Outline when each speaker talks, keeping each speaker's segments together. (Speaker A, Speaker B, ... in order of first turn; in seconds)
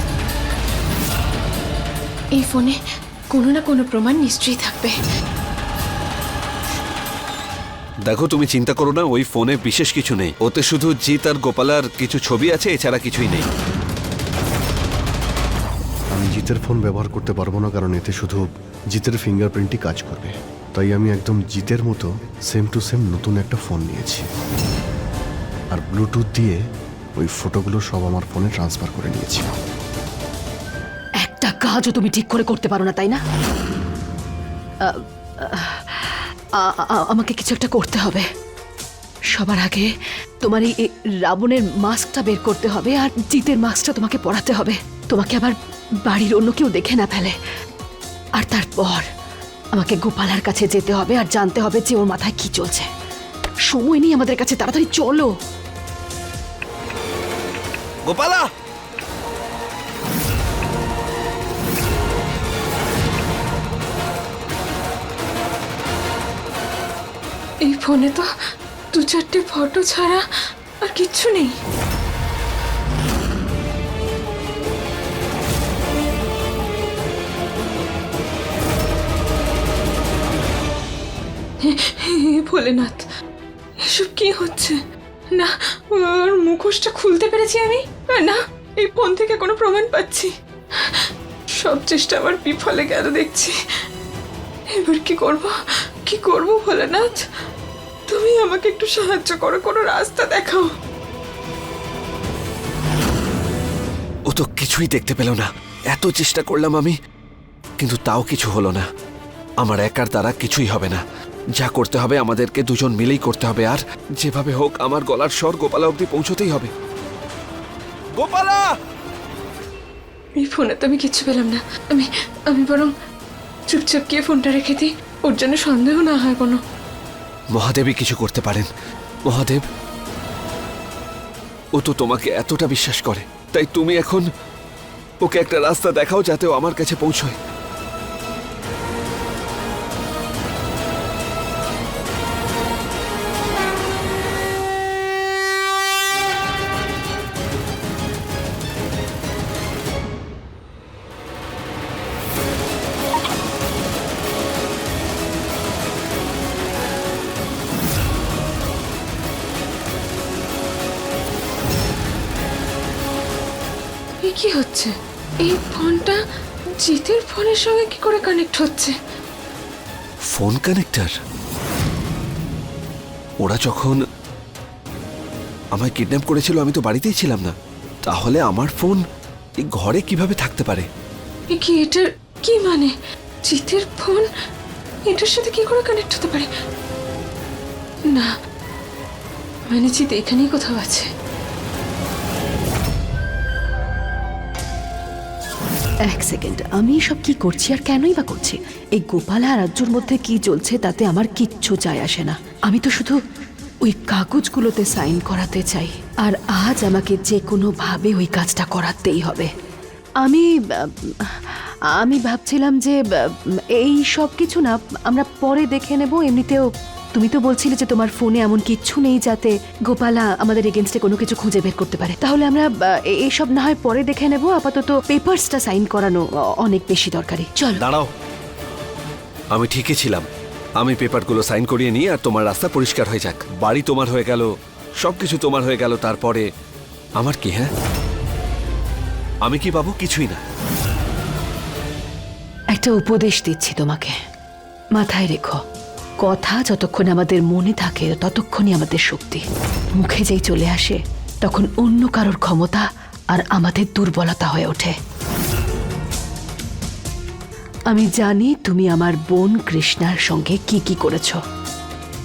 Speaker A: 2.3-2.8, 3.3-5.0, 67.6-68.3, 68.9-71.6, 81.6-83.1, 83.8-84.8, 85.3-93.6, 94.7-97.2, 98.1-100.7, 120.4-122.9, 123.7-126.6, 164.2-166.2, 166.8-168.9, 181.5-182.9, 183.5-184.3, 185.1-186.5, 189.7-191.1
Speaker B: 8.1-13.5, 58.0-58.5, 104.3-107.0, 107.8-108.8, 109.6-111.0, 111.5-116.7, 118.1-118.7, 127.5-128.7, 129.3-129.6, 131.8-134.3, 135.2-137.3, 170.3-171.1, 173.4-174.0, 175.7-177.5, 178.1-179.0, 179.6-180.8, 227.8-228.1, 229.5-230.2, 230.8-234.5, 235.0-236.5, 237.2-237.7, 239.4-240.4
Speaker C: 16.1-24.2, 25.7-26.6, 27.2-29.5
Speaker D: 31.2-33.2, 34.8-38.3, 39.3-39.9, 40.4-47.3, 48.4-49.0, 49.7-52.9, 53.7-55.3, 196.1-203.2, 203.8-209.5, 210.2-227.8, 242.7-244.1, 244.9-245.6, 246.2-254.9, 257.9-261.4